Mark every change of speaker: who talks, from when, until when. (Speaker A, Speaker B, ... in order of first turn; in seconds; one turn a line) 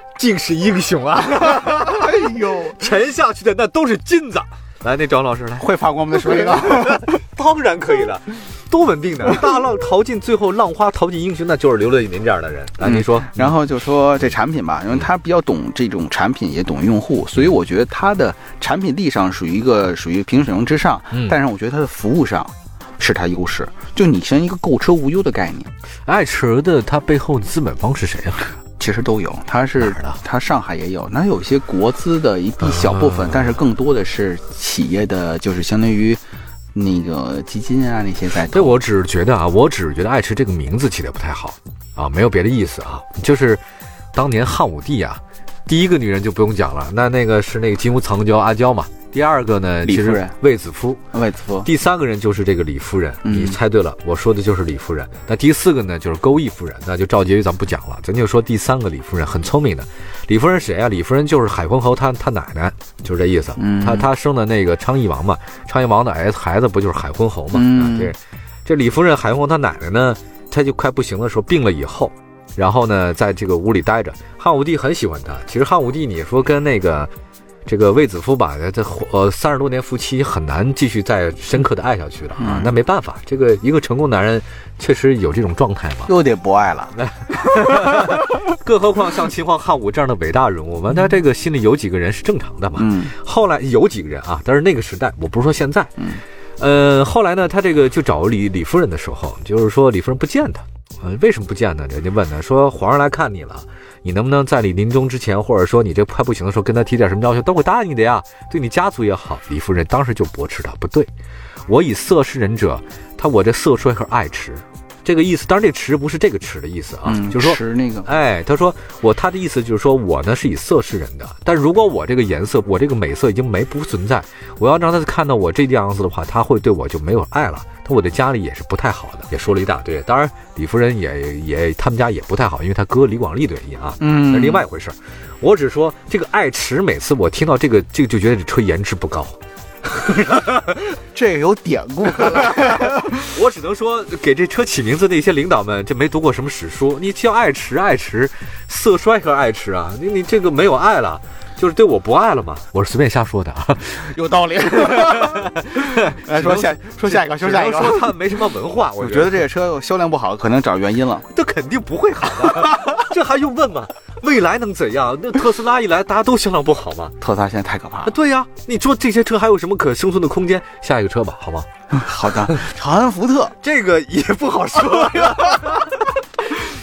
Speaker A: 0.2-13.6
Speaker B: 1.5-2.8
Speaker B: 5.6-7.1
Speaker B: 12.8-25.7
Speaker A: 26.1-28.5
Speaker B: 28.8-36.2
Speaker A: 29.8-30.2
Speaker A: 32.6-33.6
Speaker B: 36.7-38.8
Speaker A: 38.5-43.6
Speaker A: 44.1-51.0
Speaker B: 49.8-50.4
Speaker B: 51.1-51.7
Speaker A: 51.6-77.1
Speaker B: 53.2-53.6
Speaker B: 63.6-64.1
Speaker B: 67.5-68.1
Speaker A: 77.7-86.1
Speaker B: 82.4-82.7
Speaker B: 86.1-88.3
Speaker A: 87.0-95.9
Speaker B: 92.8-93.1
Speaker A: 96.6-111.1
Speaker A: 111.7-139.4
Speaker B: 117.1-118.1
Speaker B: 134.0-134.7
Speaker A: 139.9-140.8
Speaker B: 141.1-143.3
Speaker A: 142.3-154.0
Speaker B: 153.9-158.1
Speaker A: 154.8-159.4
Speaker B: 159.0-161.3
Speaker A: 161.3-167.2
Speaker B: 162.4-163.0
Speaker B: 167.2-168.1
Speaker A: 168.1-171.7
Speaker B: 171.9-173.6
Speaker A: 173.6-176.7